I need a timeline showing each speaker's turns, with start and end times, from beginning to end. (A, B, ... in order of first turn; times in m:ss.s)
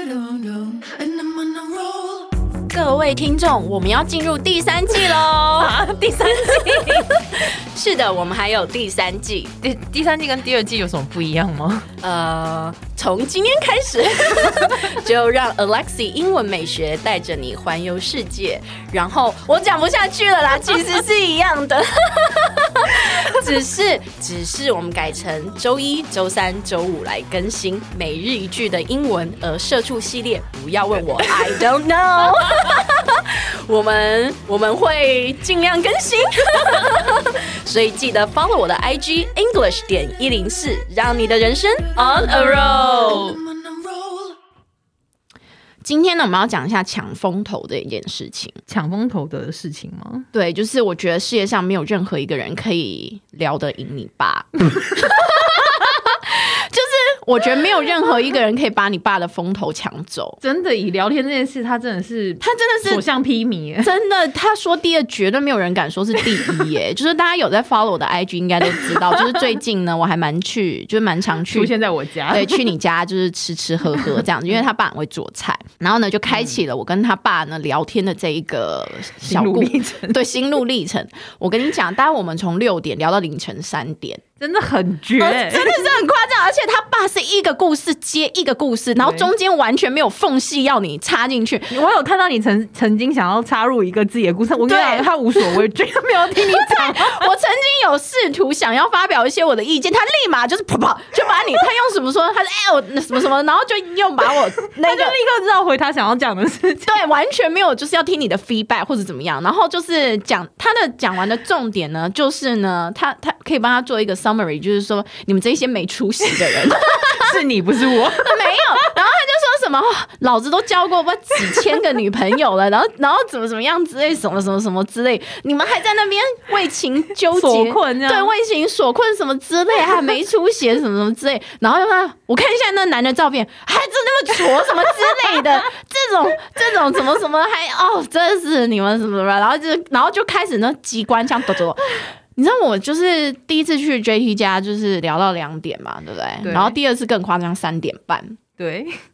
0:00.2-0:00.9 A
0:02.7-0:05.8 B
0:05.6-0:07.3 A
0:06.7-0:09.5 B
0:09.6-0:11.9 A
0:12.0-0:43.3 B
0:42.0-0:43.4 A
0:45.8-0:48.6 B
0:48.7-0:50.3 A
0:50.3-1:00.4 B
1:00.4-1:03.9 A
1:02.4-1:03.0 B
1:03.8-1:11.7 B
1:06.2-1:06.5 A
1:11.5-1:12.7 A
1:12.3-1:24.2 B
1:19.2-1:20.2 A
1:24.4-1:25.9 A
1:25.2-1:31.7 B
1:29.0-1:29.3 A
1:31.7-1:37.3 A
1:34.6-1:35.6 B
1:36.3-1:45.2 B
1:44.7-1:47.0 A
1:46.9-1:57.3 B
1:56.9-1:58.7 A
1:58.1-2:28.4 B
2:07.3-2:08.3 A
2:26.4-2:26.8 A
2:28.6-2:28.9 A